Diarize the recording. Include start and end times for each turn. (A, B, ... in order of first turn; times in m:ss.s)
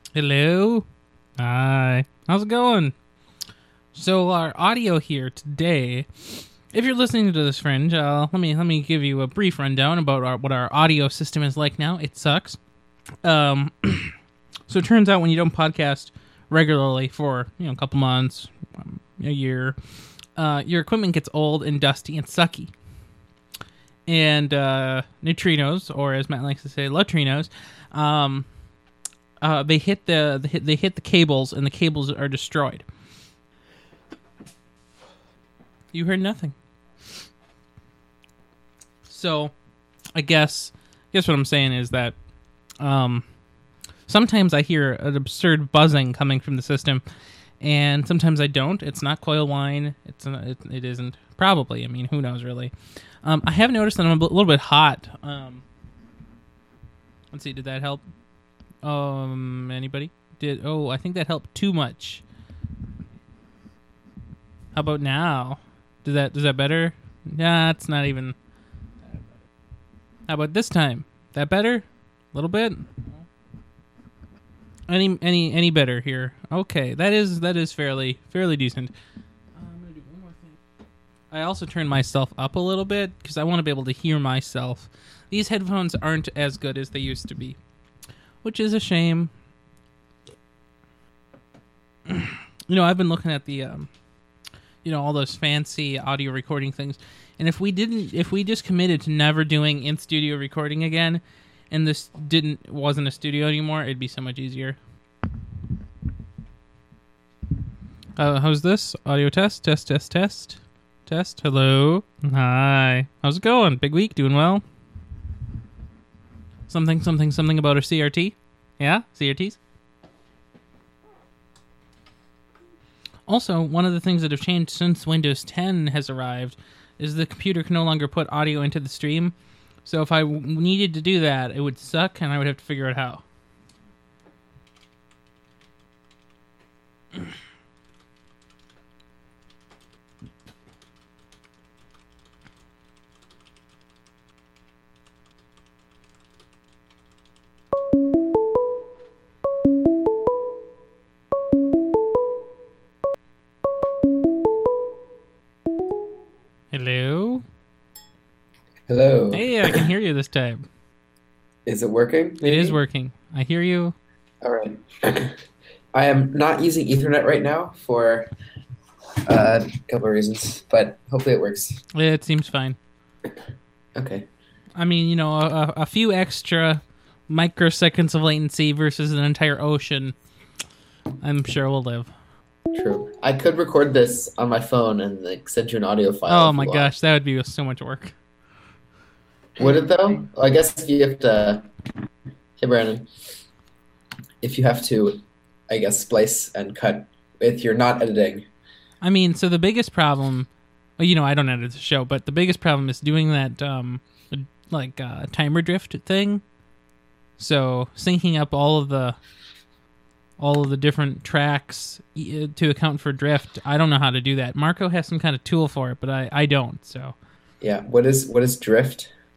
0:00.2-0:00.9 A
0:01.4-0:02.9 A
0:04.0-0:12.6 A
0:13.2-0:14.2 A
0:14.7-0:19.8 A
0:20.4-0:22.7 A
0:24.1-0:28.5 A
0:29.4-0:32.8 A
0:35.9-0:36.6 A
0:39.1-0:39.5 A
0:40.2-0:42.2 A
0:42.8-0:43.2 A
0:44.1-0:47.0 A
0:47.6-0:55.6 A
0:57.3-0:58.0 A
0:58.8-1:02.2 A
1:04.7-1:08.4 A
1:10.3-1:13.2 A
1:14.9-1:18.9 A
1:19.6-1:20.6 A
1:21.3-1:27.6 A
1:28.4-1:29.3 A
1:32.1-1:33.9 A
1:34.8-1:44.8 A
1:48.2-1:54.6 A
1:56.7-1:59.6 A
2:03.3-2:09.3 A
2:09.8-2:13.2 A
2:36.7-2:37.4 A
2:38.9-2:39.9 B
2:39.3-2:40.6 A
2:41.7-2:42.8 B
2:42.4-2:44.0 A
2:44.4-2:45.4 B
2:45.9-2:48.3 B
2:49.2-2:51.8 B
2:51.9-2:52.8 A
2:54.0-2:54.3 B
2:54.8-3:00.2 A
3:01.2-3:02.1 A
3:02.7-3:06.9 B
3:06.3-3:08.1 A
3:09.6-3:11.6 B
3:12.6-3:13.1 B
3:14.4-3:18.5 B
3:19.0-3:26.4 A
3:27.4-3:29.2 A
3:30.4-3:37.2 A
3:37.6-3:39.1 B